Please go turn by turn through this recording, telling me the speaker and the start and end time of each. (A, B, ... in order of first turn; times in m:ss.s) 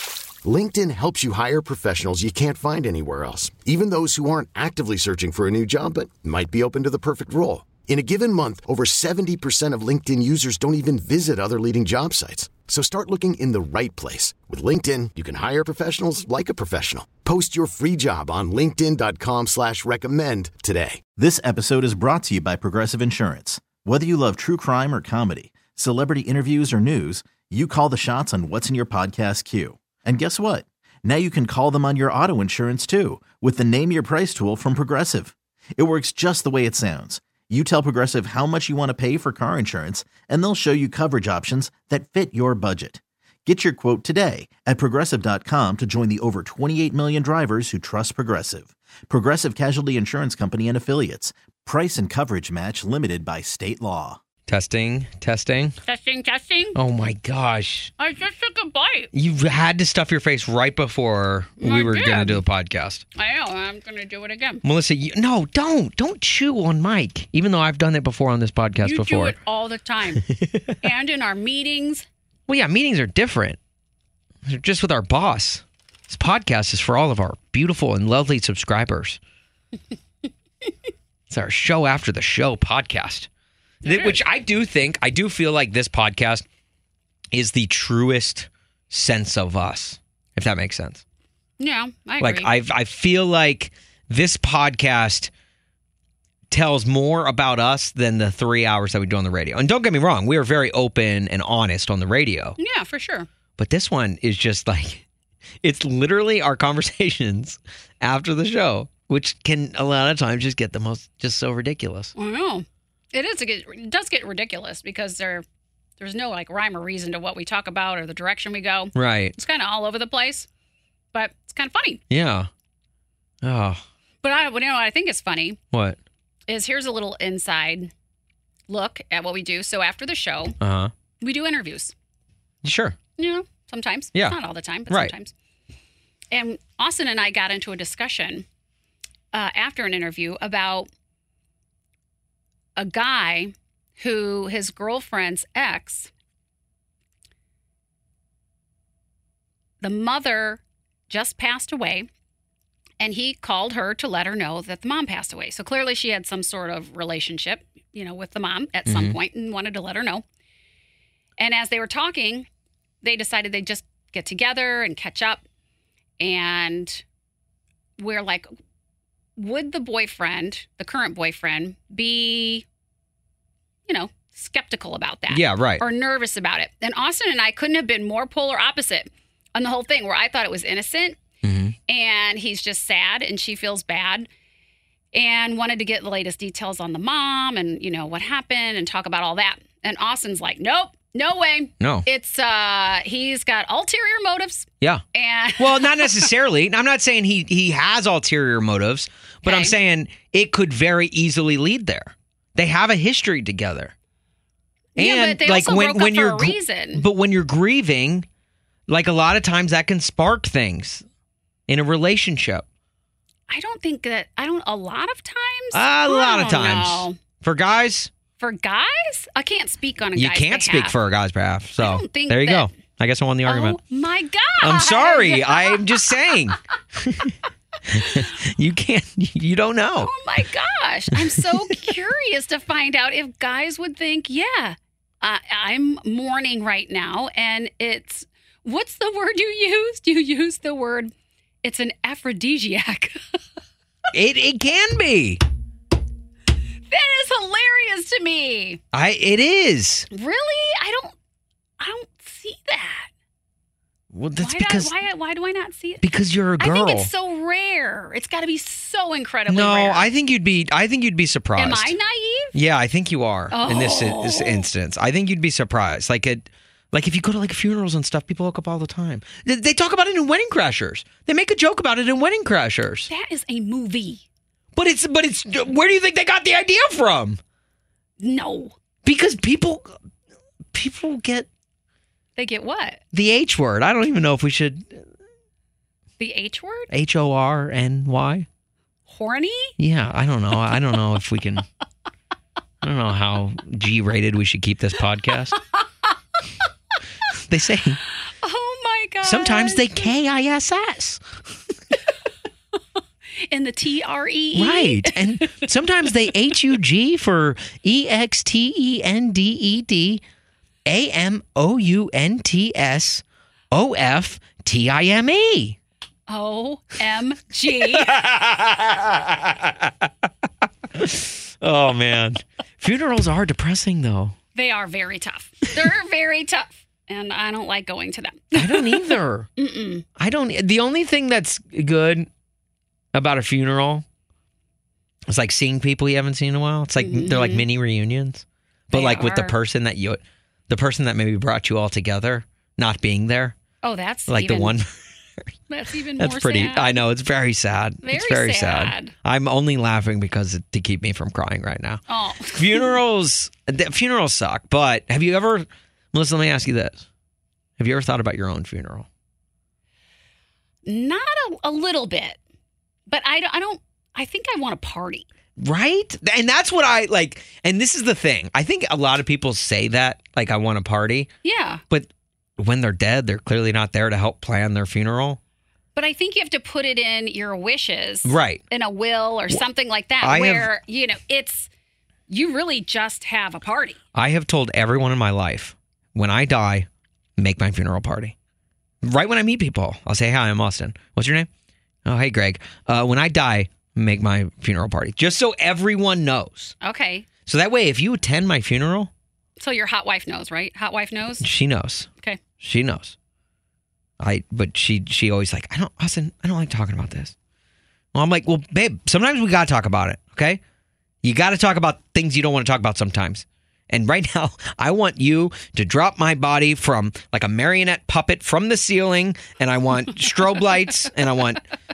0:00.4-0:21.0 A
0:21.2-0:54.2 B
0:54.5-0:55.8 C
0:55.9-0:56.8 D
0:56.7-0:57.9 C
0:58.0-0:59.1 D
0:59.1-1:03.0 C
1:01.6-1:02.4 D
1:03.2-1:04.6 D
1:04.6-1:09.4 C
1:08.8-1:10.3 D
1:10.3-1:10.6 C
1:10.8-1:12.0 D
1:12.5-1:13.6 C
1:14.4-1:19.2 C
1:21.3-1:23.3 C
1:23.8-1:26.4 C
1:27.3-1:31.0 C
1:31.6-1:32.5 D
1:32.2-1:35.3 C
1:36.5-1:42.6 C
1:42.6-1:43.3 D
1:43.6-1:45.0 C
1:45.6-1:52.1 C
1:52.2-1:55.4 D
1:56.0-2:00.5 D
1:59.0-1:59.3 C
2:01.1-2:02.0 D
2:02.1-2:02.5 C
2:03.4-2:03.8 C
2:04.2-2:05.6 D
2:05.7-2:06.0 C
2:06.5-2:07.9 D
2:08.7-2:10.5 D
2:10.6-2:10.9 C
2:11.2-2:11.9 D
2:12.6-2:13.0 C
2:13.2-2:15.3 D
2:14.9-2:15.1 C
2:16.3-2:18.4 D
2:19.3-2:20.9 D
2:22.8-2:26.1 D
2:29.8-2:32.0 D
2:33.0-2:40.2 D
2:38.8-2:39.2 C
2:41.4-2:42.5 D
2:43.0-2:45.4 D
2:46.2-2:47.0 D
2:48.0-2:48.5 D
2:49.4-2:52.6 D
2:53.9-3:01.2 D
2:55.3-2:55.8 C
3:01.4-3:01.8 C
3:01.9-3:04.3 D
3:05.1-3:16.3 D
3:11.8-3:12.1 C
3:15.6-3:23.9 C
3:19.4-3:19.7 D
3:25.0-3:27.0 D
3:25.0-3:28.2 C
3:28.9-3:31.0 C
3:31.7-3:32.6 C
3:33.5-3:37.2 D
3:35.7-3:38.1 C
3:38.4-3:40.9 D
3:40.1-3:43.8 C
3:41.8-3:42.8 D
3:43.5-3:46.2 D
3:44.6-3:47.3 C
3:47.9-3:50.1 C
3:50.0-4:01.1 D
3:51.1-3:51.6 C
4:01.6-4:03.2 D
4:04.1-4:05.4 C
4:06.9-4:08.8 D
4:08.9-4:10.1 C
4:10.1-4:11.1 D
4:11.8-4:13.1 D
4:14.1-4:15.0 C
4:14.4-4:16.0 D
4:16.0-4:17.1 C
4:16.6-4:20.1 D
4:19.5-4:21.9 C
4:21.6-4:22.5 D
4:22.5-4:33.1 C
4:23.5-4:24.7 D
4:33.1-4:34.2 D
4:34.7-4:37.4 C
4:38.2-4:38.8 D
4:39.0-4:39.9 C
4:40.7-4:41.5 C
4:42.4-4:43.0 D
4:43.1-4:45.0 C
4:46.2-4:46.9 D
4:46.9-4:48.5 C
4:49.1-4:49.7 D
4:49.8-4:51.6 C
4:52.8-4:55.6 C
4:57.5-4:58.0 C
4:58.2-5:00.1 D
4:59.2-5:01.2 C
5:03.5-5:05.6 D
5:04.5-5:10.2 C
5:10.9-5:15.8 C
5:16.3-5:18.2 D
5:17.8-5:20.1 C
5:21.0-5:24.4 C
5:24.5-5:30.0 D
5:28.5-5:29.5 C
5:30.2-5:32.3 C
5:33.1-5:34.0 C
5:35.3-5:43.6 C
5:37.0-5:37.7 D
5:38.9-5:39.6 D
5:43.8-5:44.7 D
5:44.3-5:44.9 C
5:45.7-5:47.0 D
5:46.2-5:52.0 C
5:48.0-5:49.1 D
5:52.1-5:53.0 D
5:52.5-5:57.0 C
5:57.8-5:59.1 C
6:00.8-6:02.4 D
6:03.1-6:05.3 D
6:05.6-6:11.3 C
6:11.4-6:11.8 D
6:11.9-6:15.4 C
6:15.9-6:21.7 D
6:18.2-6:18.6 C
6:20.2-6:20.7 C
6:22.3-6:24.0 D
6:24.1-6:28.3 C
6:29.0-6:31.5 C
6:32.0-6:36.7 C
6:36.8-6:37.3 D
6:37.4-6:39.1 C
6:39.6-6:41.4 D
6:41.4-6:43.1 C
6:44.2-6:47.3 C
6:48.1-6:50.6 C
6:51.2-7:01.6 C